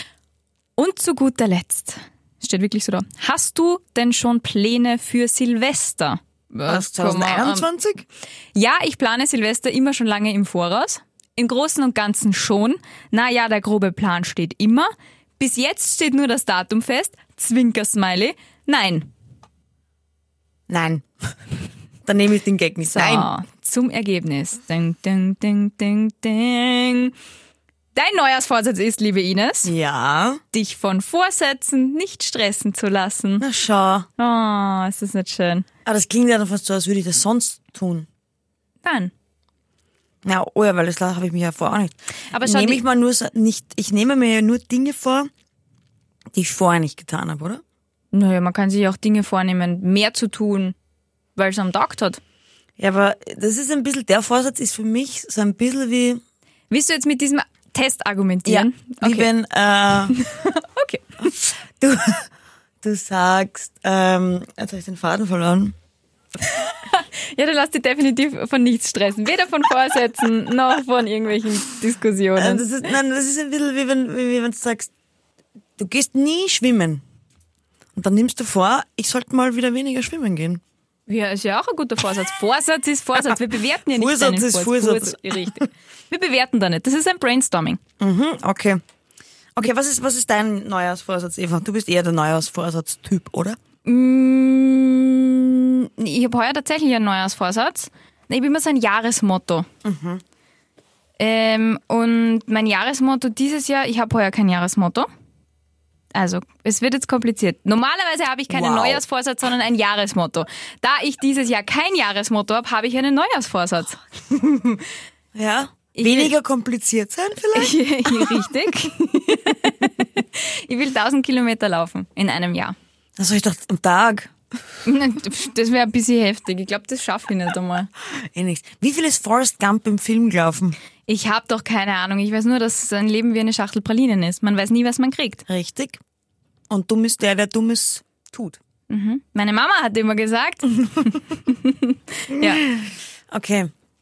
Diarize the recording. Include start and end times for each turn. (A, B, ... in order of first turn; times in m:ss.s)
0:00.8-0:07.7 A
0:06.7-0:08.0 B
0:08.5-0:19.1 A
0:20.7-0:21.0 B
0:22.0-0:23.3 B
0:22.9-0:27.1 A
0:27.9-0:29.7 A
0:29.6-0:30.4 B
0:30.5-0:33.4 A
0:33.4-0:34.1 B
0:34.2-0:35.6 A
0:35.8-0:38.1 B
0:38.8-0:39.1 A
0:40.2-0:45.3 B
0:42.3-0:42.8 A
0:46.3-0:47.6 B
0:48.1-0:50.7 A
0:51.4-0:52.2 A
0:52.8-0:56.2 B
0:56.7-0:59.3 A
0:58.4-1:00.2 B
1:00.1-1:01.0 A
1:01.2-1:02.3 B
1:02.8-1:05.7 B
1:06.4-1:12.7 A
1:12.4-1:14.9 B
1:15.8-1:17.0 B
1:17.9-1:20.6 B
1:21.1-1:27.8 A
1:23.9-1:25.7 B
1:28.0-1:28.8 B
1:29.6-1:33.6 B
1:33.8-1:39.7 A
1:39.8-1:40.2 B
1:41.2-1:45.1 A
1:46.1-1:54.0 A
1:48.5-1:49.0 B
1:54.3-1:54.8 B
1:55.3-1:58.4 B
1:55.9-1:56.3 A
1:57.5-2:02.8 A
2:03.2-2:04.3 B
2:04.8-2:07.9 A
2:08.1-2:10.8 B
2:11.1-2:15.4 A
2:15.5-2:16.0 B
2:16.7-2:18.6 B
2:18.9-2:22.6 A
2:22.3-2:23.7 B